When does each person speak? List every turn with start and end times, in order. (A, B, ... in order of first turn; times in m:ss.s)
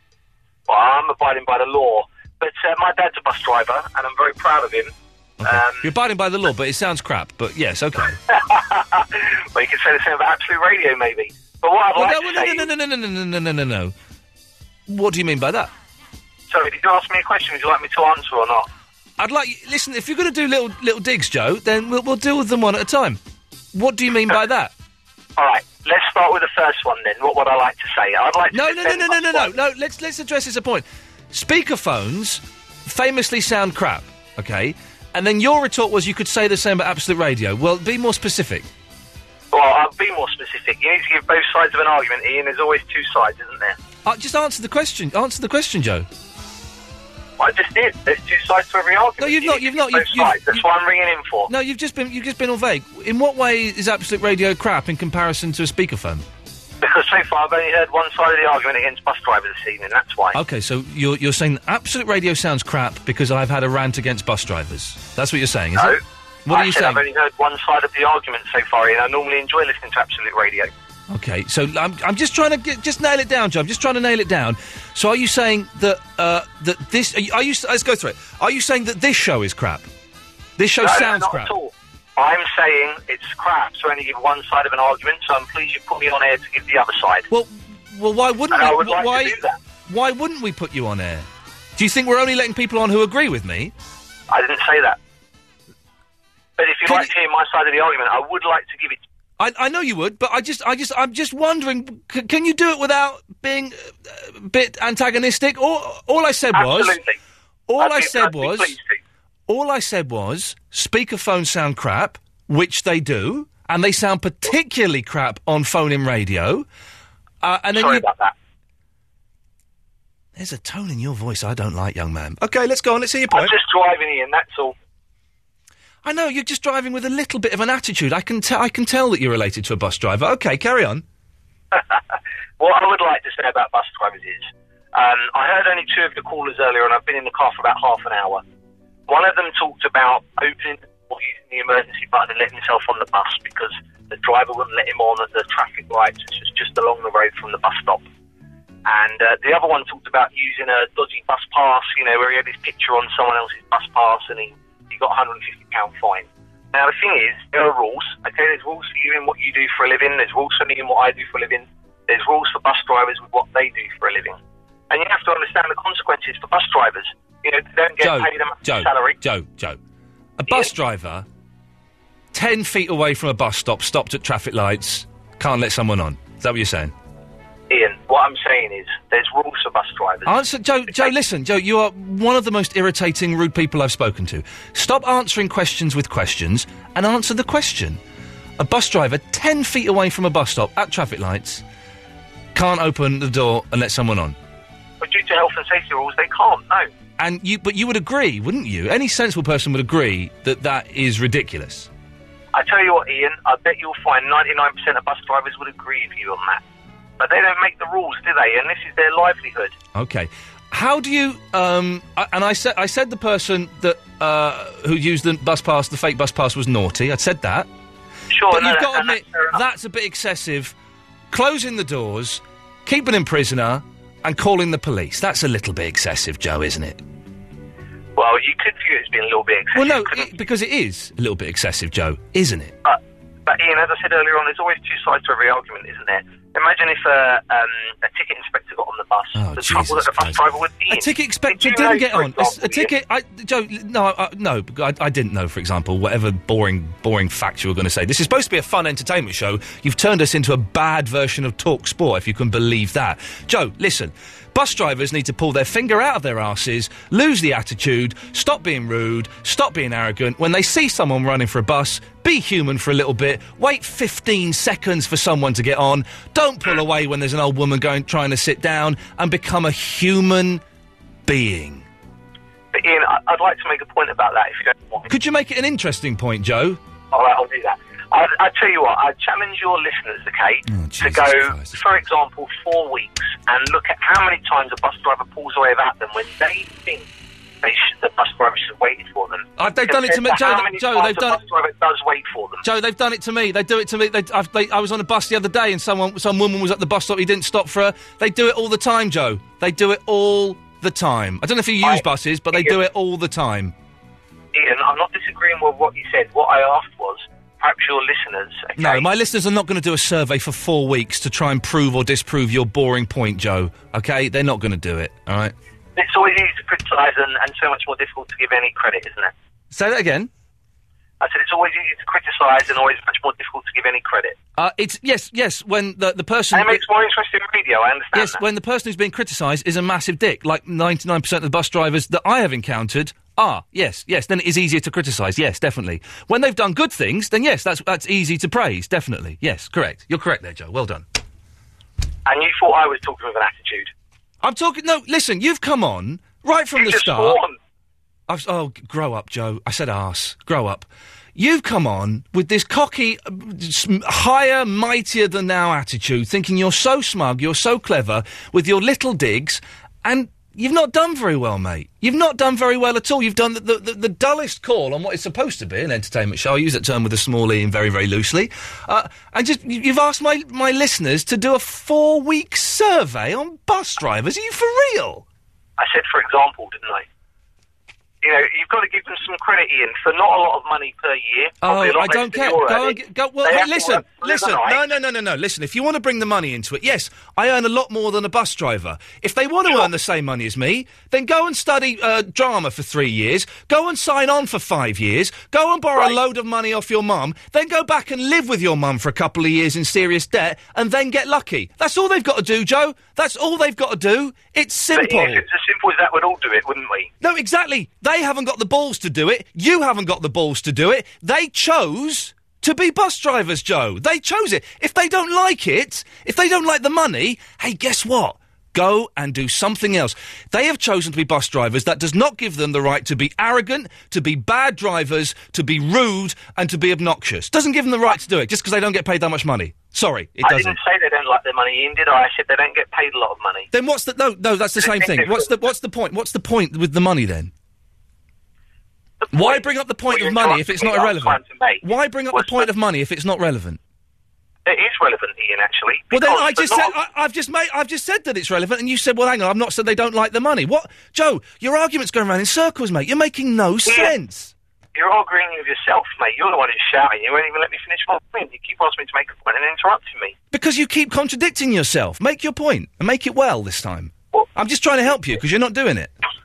0:00.7-0:04.9 A
0:05.4-0:08.2 B
0:05.4-0:05.9 A
0:08.3-0:12.7 A
0:11.9-0:13.9 B
0:14.9-0:15.7 B
0:16.5-0:18.7 A
0:19.2-0:23.2 B
0:23.7-0:24.7 B
0:25.4-0:29.5 A
0:28.5-0:38.7 B
0:39.5-0:43.8 A
0:44.0-0:46.1 B
0:47.4-0:51.5 A
0:49.2-0:50.6 B
0:51.5-0:56.2 B
0:56.8-1:00.4 A
1:00.3-1:07.0 B
1:05.7-1:10.7 A
1:11.1-1:19.9 B
1:20.6-1:21.5 B
1:20.8-1:27.2 A
1:27.3-1:33.7 B
1:28.5-1:29.6 A
1:34.3-1:35.0 A
1:36.6-1:39.0 A
1:36.8-1:37.1 B
1:39.4-1:47.0 B
1:46.5-1:47.2 A
1:47.7-1:48.8 B
1:47.8-1:49.0 A
1:49.5-1:56.6 B
1:57.4-1:58.1 B
1:57.7-1:58.3 A
2:00.4-2:03.5 B
2:03.3-2:04.7 A
2:06.0-2:11.0 B
2:11.7-2:12.0 A
2:12.6-2:18.4 A
2:19.1-2:28.0 A
2:28.8-2:44.4 A
2:44.9-2:49.2 A
2:48.0-2:49.8 B
2:50.4-2:51.2 B
2:50.4-2:50.7 A
2:52.3-2:56.9 B
2:57.7-3:01.1 A
3:00.2-3:08.0 B
3:08.6-3:11.6 B
3:12.5-3:14.4 B
3:15.0-3:16.9 A
3:17.2-3:21.9 B
3:22.5-3:26.6 A
3:27.2-3:29.8 A
3:29.9-3:37.7 B
3:38.3-3:39.6 A
3:38.5-3:40.7 B
3:41.3-3:47.0 B
3:48.2-3:50.4 A
3:49.7-3:52.8 B
3:52.8-4:02.9 A
3:59.3-4:30.6 B
4:31.3-4:31.8 B
4:32.7-4:35.1 A
4:35.1-4:36.8 B
4:37.1-4:47.1 A
4:40.7-4:41.8 B
4:47.6-4:52.6 A
4:49.6-4:51.4 B
4:52.6-5:03.7 B
5:01.8-5:02.8 A
5:04.5-5:09.1 A
5:08.8-5:15.5 B
5:16.0-5:19.3 A
5:19.7-5:20.3 B
5:21.2-5:24.4 A
5:24.6-5:26.8 B
5:26.5-5:28.4 A
5:28.1-5:41.0 B
5:42.2-5:43.9 A
5:44.4-5:47.4 B
5:46.7-5:47.6 A
5:48.3-6:15.2 B
6:15.8-6:17.0 A
6:18.2-6:24.9 A
6:21.6-6:45.4 B
6:44.9-6:47.1 A
6:47.2-7:10.8 B
7:10.4-7:13.7 A
7:13.7-7:17.5 B
7:14.8-7:15.6 A
7:19.2-7:22.7 A
7:19.3-7:23.8 B
7:24.6-7:27.0 A
7:26.1-7:34.5 B
7:33.8-7:34.1 A
7:34.9-7:40.4 A
7:40.5-7:46.1 B